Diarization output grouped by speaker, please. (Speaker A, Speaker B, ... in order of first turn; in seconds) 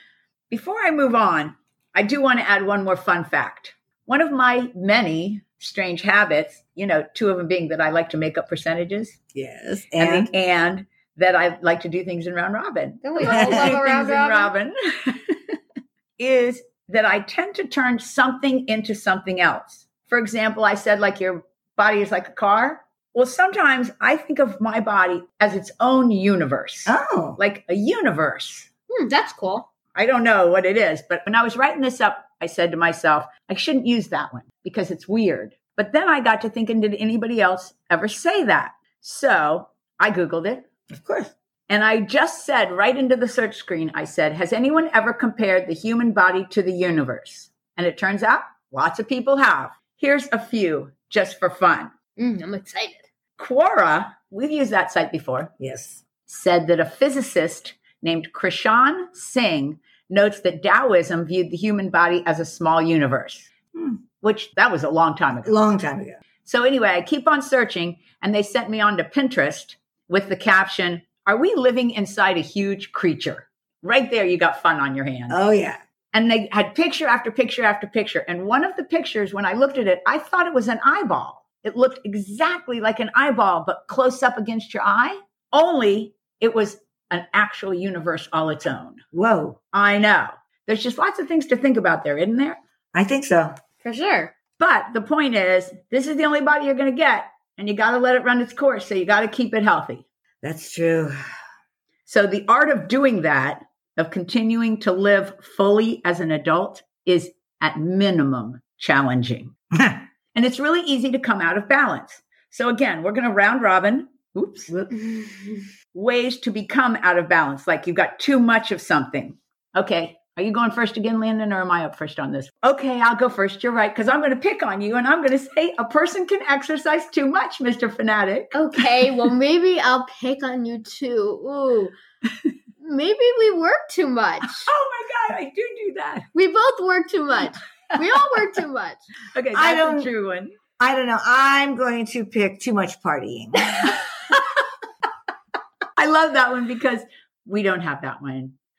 Speaker A: 0.5-9.2, 10.0-15.4, 16.2-28.7, 29.9-40.6, 41.7-51.9, 53.4-55.5, 56.3-63.5, 64.2-65.6, 66.4-75.4, 76.1-89.0, 89.7-92.6, 94.6-100.0, 102.1-109.5, 110.3-114.7, 115.9-129.1, 134.5-136.3, 139.3-140.5, 146.0-148.6
Speaker B: 9.3-10.3, 13.2-13.8, 26.9-27.4, 40.9-41.3, 55.6-56.0, 63.7-64.0, 65.5-66.2, 75.3-75.8, 89.1-89.6, 92.9-93.5, 100.4-101.2, 109.8-110.0, 114.7-115.2, 139.5-140.1, 140.8-144.0
Speaker C: 13.0-14.5, 28.9-29.7, 52.2-53.0, 93.8-94.3, 128.5-131.9, 132.8-134.7, 136.3-139.0